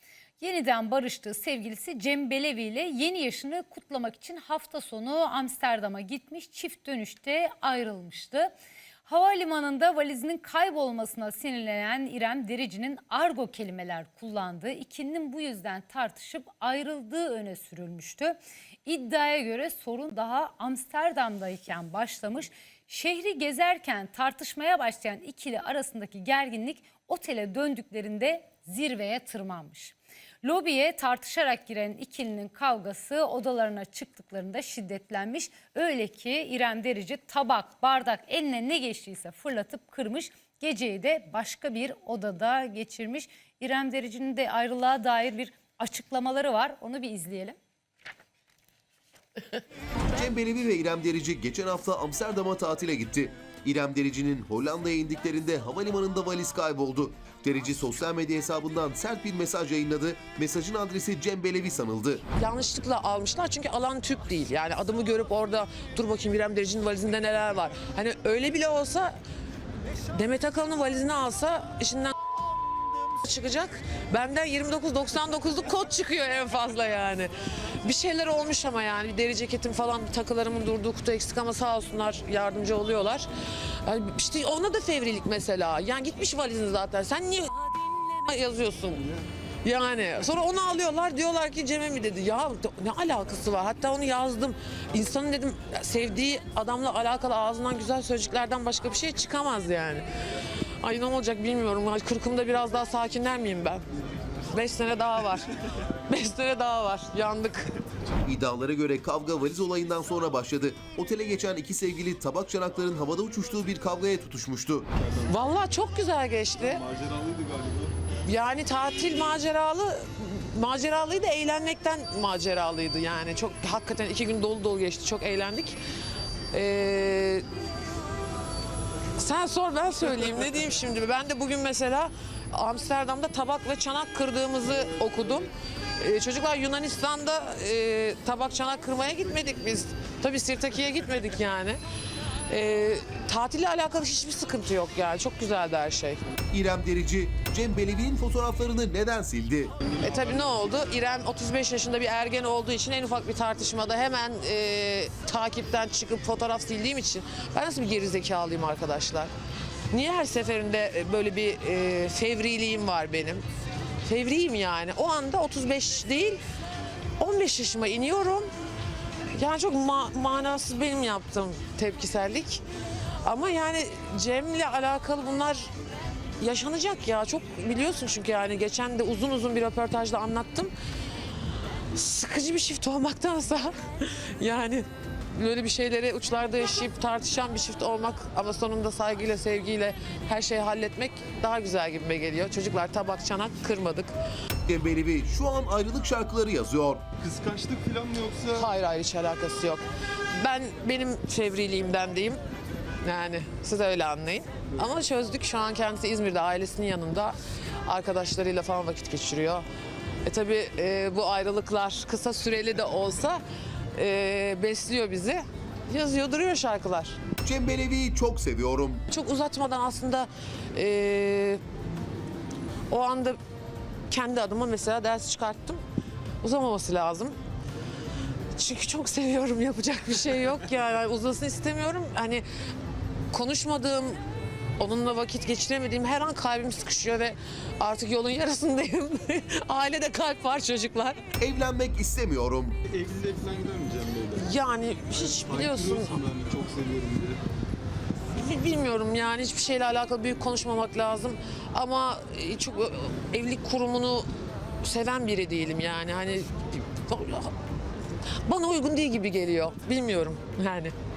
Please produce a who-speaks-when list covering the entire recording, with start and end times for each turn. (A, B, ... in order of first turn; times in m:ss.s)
0:00.4-0:08.5 A
0:09.0-0:47.6 A
0:50.1-1:02.2 B
1:02.4-1:09.1 C
1:10.1-1:12.3 C
1:13.2-1:17.3 C
1:17.8-1:23.3 C
1:23.8-1:29.1 C
1:29.6-1:40.1 C
1:40.8-1:43.8 C
1:44.5-1:45.5 C
1:46.1-1:47.8 C
1:48.2-1:54.9 B
1:55.3-1:56.8 C
1:56.6-1:57.9 D
1:58.2-2:05.8 C
2:06.5-2:07.4 C
2:09.2-2:21.8 C
2:22.5-2:26.2 C
2:26.5-2:29.8 B
2:30.0-2:39.3 C
2:30.1-2:30.6 D
2:39.9-2:43.4 C
2:44.0-2:46.4 C
2:47.2-2:48.5 C
2:49.3-2:52.6 C
2:53.2-2:55.7 C
2:56.4-3:00.7 C
3:01.9-3:14.1 C
3:14.7-3:17.0 B
3:17.2-3:18.7 D
3:18.5-3:22.4 C
3:23.0-3:29.7 C
3:30.2-3:33.4 C
3:33.9-3:37.2 C
3:37.4-3:39.0 B
3:39.1-3:41.6 C
3:42.9-3:43.4 C
3:44.1-3:45.8 C
3:46.4-3:47.4 C
3:48.6-3:52.4 C
3:53.3-3:54.2 C
3:54.8-4:01.2 C
4:01.4-4:02.8 B
4:02.8-4:04.6 D
4:04.3-4:06.2 C
4:05.1-4:07.4 D
4:08.3-4:14.3 C
4:14.8-4:17.5 C
4:18.5-4:20.9 C